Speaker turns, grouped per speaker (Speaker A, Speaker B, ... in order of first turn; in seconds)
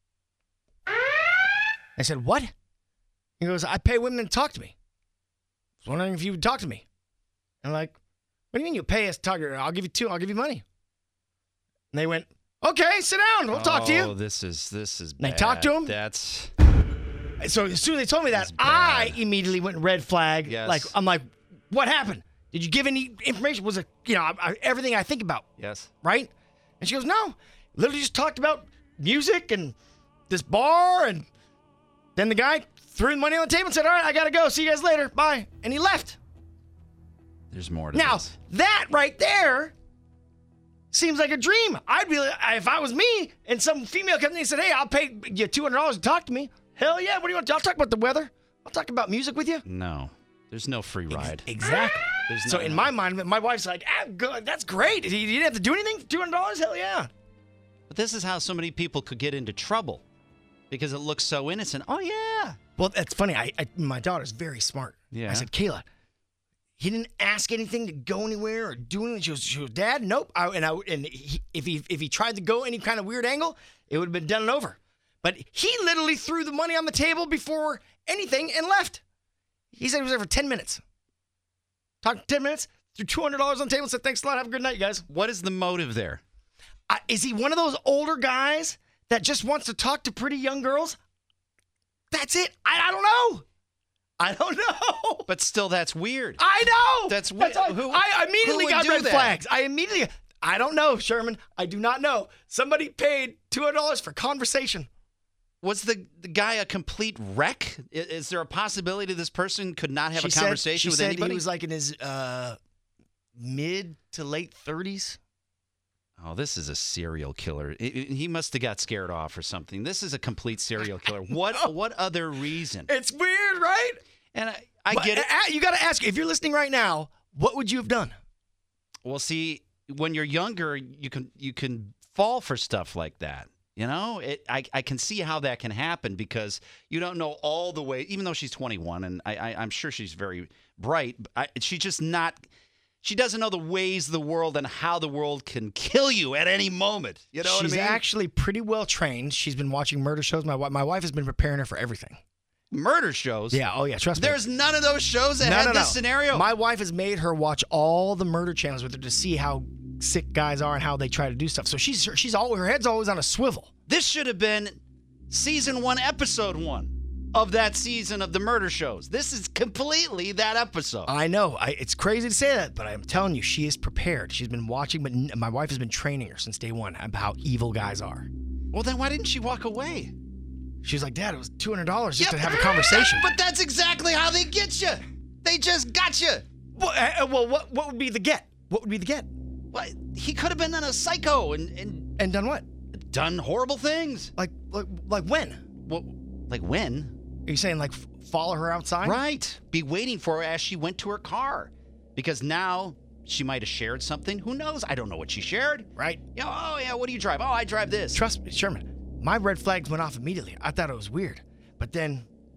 Speaker A: 2.0-2.5, 3.4-4.7, 5.8-6.8, 7.6-8.0, 8.5-10.6, 11.9-14.1, 15.2-15.9, 17.4-25.5, 26.0-29.8, 30.3-31.3, 32.2-36.2, 37.9-39.7, 40.9-49.6, 51.1-57.1, 62.8-65.9, 66.8-79.0, 79.7-80.8, 82.0-85.1, 86.9-91.0, 92.1-93.5, 94.2-95.3, 96.4-104.9, 110.1-112.6, 113.4-115.2, 122.9-124.0, 124.9-128.2, 147.4-152.2, 153.5-154.4, 155.4-163.7, 171.1-178.3, 180.8-183.3, 186.8-189.3, 192.2-192.7, 194.4-195.6, 197.5-199.2, 206.0-206.2, 208.1-212.3
Speaker B: 13.5-16.5, 18.3-19.2, 20.5-20.9, 25.6-25.9, 37.5-38.4, 49.6-51.5, 52.2-52.9, 57.9-60.0, 60.7-62.6, 65.1-65.5, 85.1-86.2, 95.3-96.4, 97.1-99.4, 105.6-111.4, 116.2-122.9, 124.3-125.3, 129.1-142.4, 143.0-148.0, 152.7-153.6, 154.1-156.4, 163.9-164.8, 165.3-171.1, 178.7-180.1, 182.2-186.4, 189.7-192.1, 192.9-194.3, 195.8-197.2, 199.0-208.2